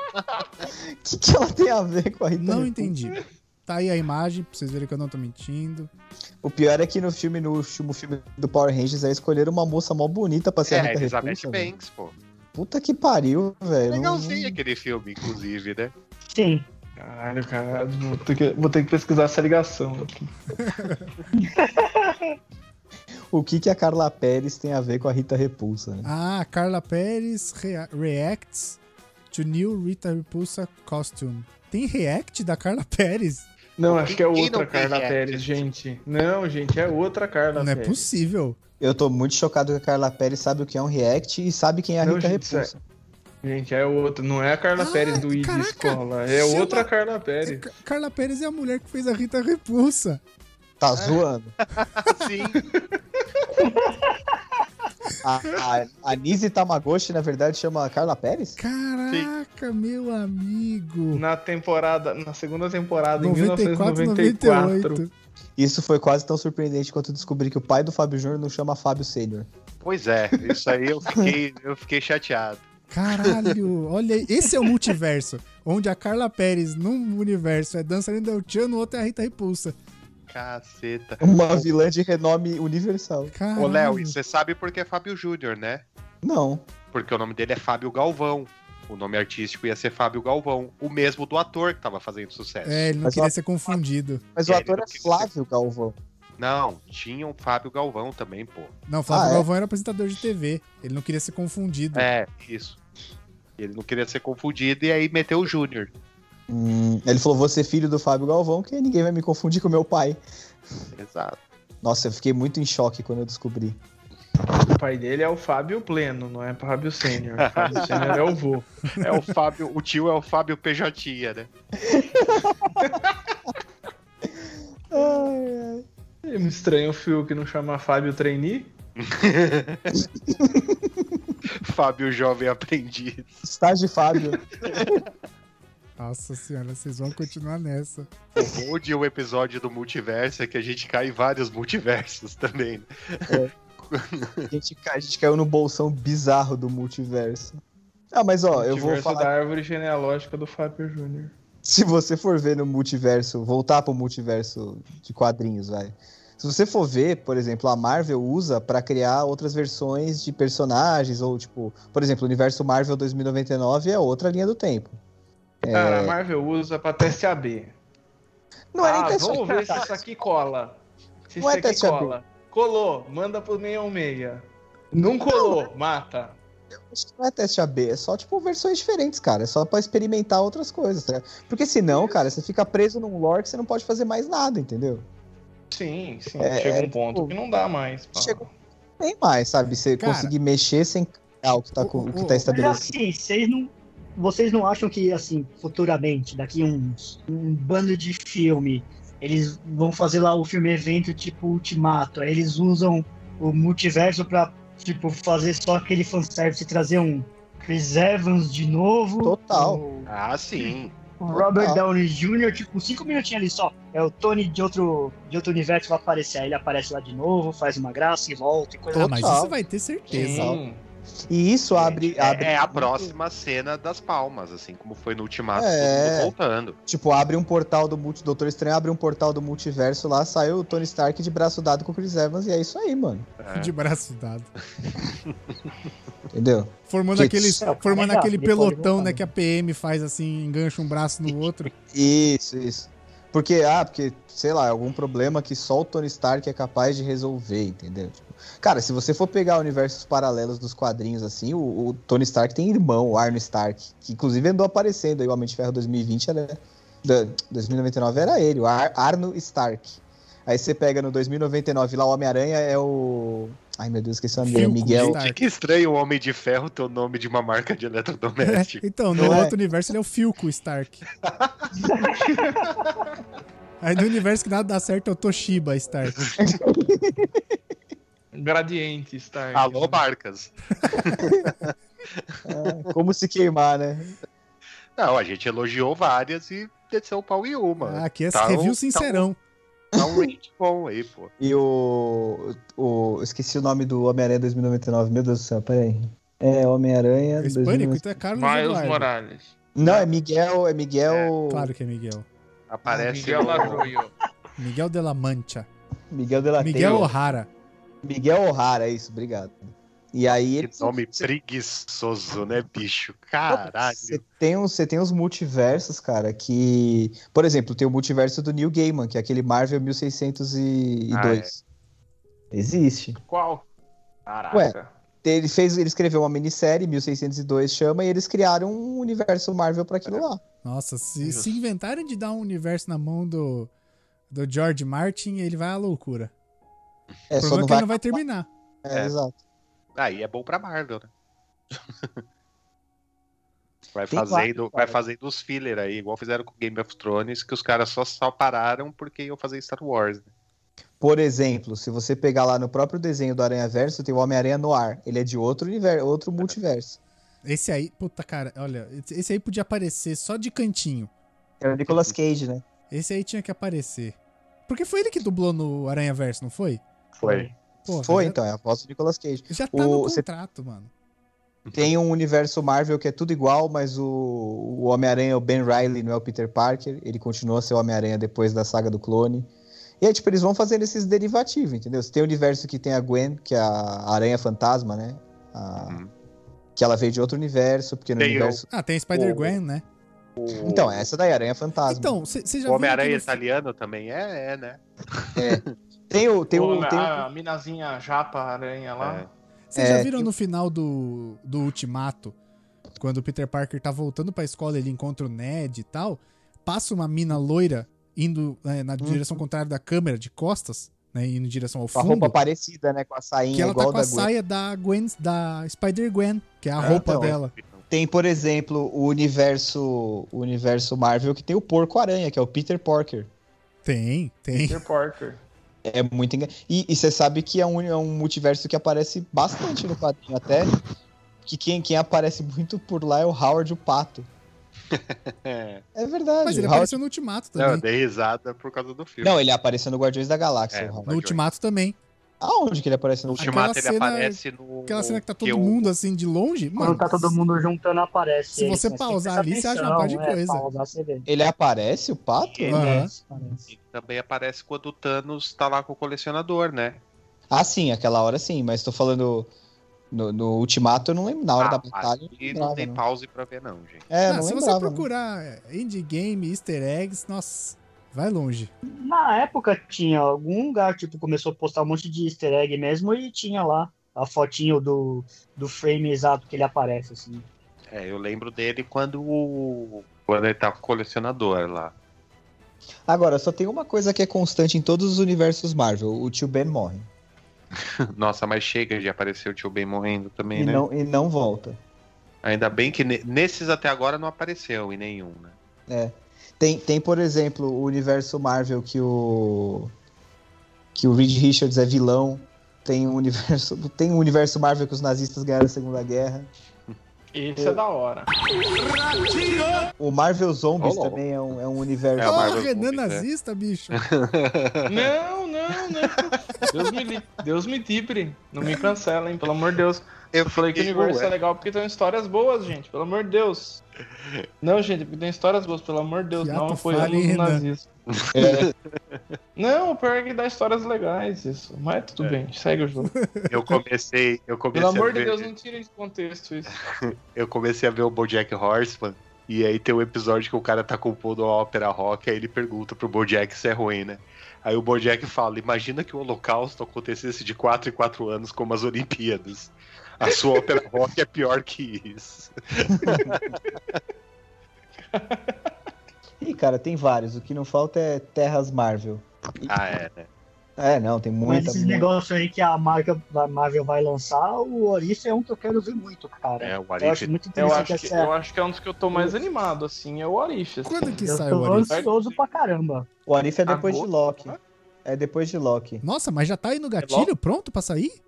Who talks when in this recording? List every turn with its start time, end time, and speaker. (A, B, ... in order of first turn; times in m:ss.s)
0:01.0-0:03.0 A
0:02.4-0:05.9 B
0:06.4-0:11.7 A
0:10.6-0:12.2 C
0:12.5-0:14.6 A
0:13.9-0:15.9 C
0:16.3-0:16.6 D
0:17.0-0:20.3 E
0:20.6-0:21.0 B
0:21.4-0:22.3 D
0:23.3-0:26.1 A
0:26.0-0:28.8 B
0:29.3-0:33.5 B
0:33.8-0:38.1 E
0:33.9-0:35.7 C
0:37.5-0:38.6 B
0:38.8-0:42.8 A
0:42.0-0:42.7 E
0:43.4-0:47.7 E
0:44.8-0:46.9 B
0:47.4-0:50.2 B
0:50.8-0:51.5 A
0:51.7-0:52.6 C
0:52.6-0:52.9 E
0:53.6-0:54.2 D
0:55.2-0:58.6 A
0:58.6-1:01.2 B
1:01.1-1:05.0 E
1:03.2-1:05.1 B
1:05.6-1:09.5 A
1:09.8-1:13.6 C
1:12.9-1:19.7 B
1:20.3-1:21.6 C
1:21.2-1:23.3 A
1:23.3-1:24.1 B
1:23.6-1:25.8 C
1:26.2-1:26.7 A
1:26.9-1:32.9 C
1:32.6-1:34.2 B
1:33.0-1:33.3 A
1:34.4-1:36.0 A
1:34.4-1:35.3 C
1:36.4-1:38.7 C
1:38.9-1:42.1 B
1:39.1-1:39.5 A
1:41.9-1:42.8 C
1:43.6-1:45.9 C
1:46.5-1:50.2 A
1:50.9-1:51.4 C
1:51.8-1:53.8 A
1:54.7-1:58.7 E
1:57.4-1:58.2 C
1:57.7-1:58.1 A
1:59.0-2:01.5 C
2:01.8-2:02.8 A
2:02.8-2:03.1 E
2:04.9-2:05.8 A
2:06.2-2:08.7 E
2:09.0-2:10.0 C
2:10.3-2:11.1 A
2:11.5-2:13.4 C
2:13.4-2:15.0 A
2:14.6-2:15.0 C
2:16.0-2:18.1 B
2:18.4-2:24.5 C
2:24.5-2:27.6 A
2:28.1-2:29.3 A
2:28.5-2:31.3 E
2:31.6-2:45.0 A
2:45.6-2:46.2 A
2:45.7-2:47.7 E
2:48.7-2:50.0 A
2:48.8-2:56.4 E
2:51.4-2:52.1 A
2:56.8-3:05.0 A
3:05.7-3:08.5 E
3:06.4-3:07.4 A
3:08.2-3:08.4 A
3:09.0-3:12.9 A
3:10.0-3:10.3 B
3:11.8-3:12.5 B
3:12.5-3:30.1 D
3:29.2-3:29.8 A
3:30.1-3:30.9 C
3:31.2-3:39.4 D
3:31.3-3:31.8 A
3:38.9-3:40.6 B
3:39.0-3:39.6 A
3:40.1-3:40.8 E
3:40.2-3:40.6 A
3:41.3-3:43.1 A
3:41.7-3:46.8 C
3:45.5-3:46.3 A
3:46.9-3:53.3 A
3:53.4-3:53.7 C
3:53.5-3:54.5 B
3:56.3-3:57.6 A
3:56.9-4:01.7 B
3:57.6-3:59.3 D
4:01.9-4:25.2 A
4:24.4-4:25.4 B
4:24.9-4:29.4 C
4:28.4-4:31.0 B
4:29.1-4:29.5 A
4:31.2-4:31.7 C
4:31.8-4:32.6 D
4:32.2-4:32.6 E
4:33.8-4:36.3 B
4:36.4-4:37.4 A
4:38.3-4:40.0 E
4:39.5-4:42.2 C
4:42.4-4:44.1 A
4:45.0-4:49.3 C
4:47.8-4:49.4 B
4:49.9-4:50.3 A
4:50.0-4:51.3 C
4:51.4-4:58.0 A
4:57.4-4:59.1 B
4:58.3-5:00.0 E
4:59.7-5:01.7 A
5:01.0-5:01.3 C
5:01.5-5:02.3 B
5:02.7-5:03.9 C
5:02.9-5:04.1 E
5:03.3-5:03.9 A
5:04.6-5:05.7 B
5:06.1-5:07.1 A
5:06.6-5:07.5 B
5:08.0-5:11.3 A
5:10.6-5:14.2 C
5:13.5-5:21.6 A
5:21.1-5:21.5 C
5:22.5-5:23.2 A
5:23.3-5:23.6 E
5:24.2-5:24.9 E
5:24.5-5:30.4 A
5:30.6-5:33.7 B
5:31.2-5:31.5 C
5:34.3-5:36.3 B
5:37.3-5:38.2 A
5:37.4-5:38.5 B
5:38.8-5:39.4 A
5:40.0-5:41.1 C
5:41.7-5:42.2 C
5:43.9-5:50.2 C
5:44.1-5:45.0 A
5:51.0-5:57.0 A
5:57.4-6:01.1 B
6:01.6-6:02.6 A
6:02.9-6:06.8 B
6:07.2-6:07.5 D
6:07.8-6:08.4 B
6:07.9-6:10.2 A
6:09.5-6:10.9 B
6:11.7-6:19.5 A
6:20.0-6:26.0 A
6:25.8-6:26.1 C
6:26.8-6:28.6 A
6:28.2-6:28.6 C
6:28.7-6:29.8 B
6:29.1-6:29.6 C
6:30.4-6:31.1 C
6:30.5-6:32.2 A
6:31.9-6:33.4 B
6:32.6-6:35.7 C
6:35.4-6:37.2 A
6:36.5-6:39.3 E
6:39.0-6:39.3 C
6:39.7-6:42.4 B
6:39.8-6:40.3 A
6:43.0-6:52.4 B
6:49.0-6:49.4 A
6:51.9-6:54.3 A
6:53.5-6:57.5 B
6:56.8-6:57.8 C
6:56.8-6:57.4 A
6:57.9-7:03.3 A
7:03.8-7:04.8 B
7:04.5-7:05.4 E
7:05.8-7:10.8 A
7:11.4-7:14.3 A
7:14.9-7:15.8 C
7:15.9-7:17.0 A
7:16.4-7:17.8 B
7:17.6-7:19.4 C
7:19.2-7:21.0 A
7:20.7-7:21.4 C
7:21.1-7:22.0 B
7:22.4-7:23.7 A
7:23.3-7:25.9 C
7:23.4-7:27.4 B
7:26.8-7:31.2 D
7:28.5-7:30.6 B
7:31.2-7:33.0 A
7:32.7-7:33.1 B
7:32.7-7:33.7 D
7:33.7-7:37.0 C
7:37.5-7:39.5 A
7:40.1-7:43.0 A
7:41.6-7:44.1 C
7:44.1-7:45.1 A
7:44.3-7:48.7 B
7:49.0-7:57.4 D
7:57.9-8:01.9 C
8:03.1-8:07.1 A
8:07.8-8:10.8 C
8:10.5-8:11.8 A
8:12.4-8:15.5 C
8:15.9-8:19.9 A
8:20.9-8:26.5 A
8:27.3-8:28.3 E
8:30.0-8:32.6 A
8:30.8-8:31.2 C
8:32.2-8:33.2 C
8:32.2-8:34.0 B
8:33.9-8:35.1 C
8:34.9-8:43.8 E
8:40.3-8:41.3 C
8:44.6-8:47.9 E
8:46.4-8:47.6 B
8:48.1-8:49.2 C
8:48.3-8:48.7 A
8:49.6-8:53.1 E
8:53.1-8:53.7 B
8:53.5-8:55.5 C
8:54.7-8:56.7 E
8:57.0-9:13.6 C
9:13.0-9:13.3 A
9:15.1-9:15.7 E
9:16.4-9:19.7 A
9:19.7-9:20.3 C
9:20.8-9:22.1 A
9:21.4-9:28.3 D
9:26.6-9:27.9 C
9:27.5-9:31.3 E
9:30.8-9:32.0 B
9:31.2-9:33.1 D
9:31.8-9:32.4 E
9:33.2-9:36.0 A
9:33.6-9:34.6 E
9:36.0-9:38.2 B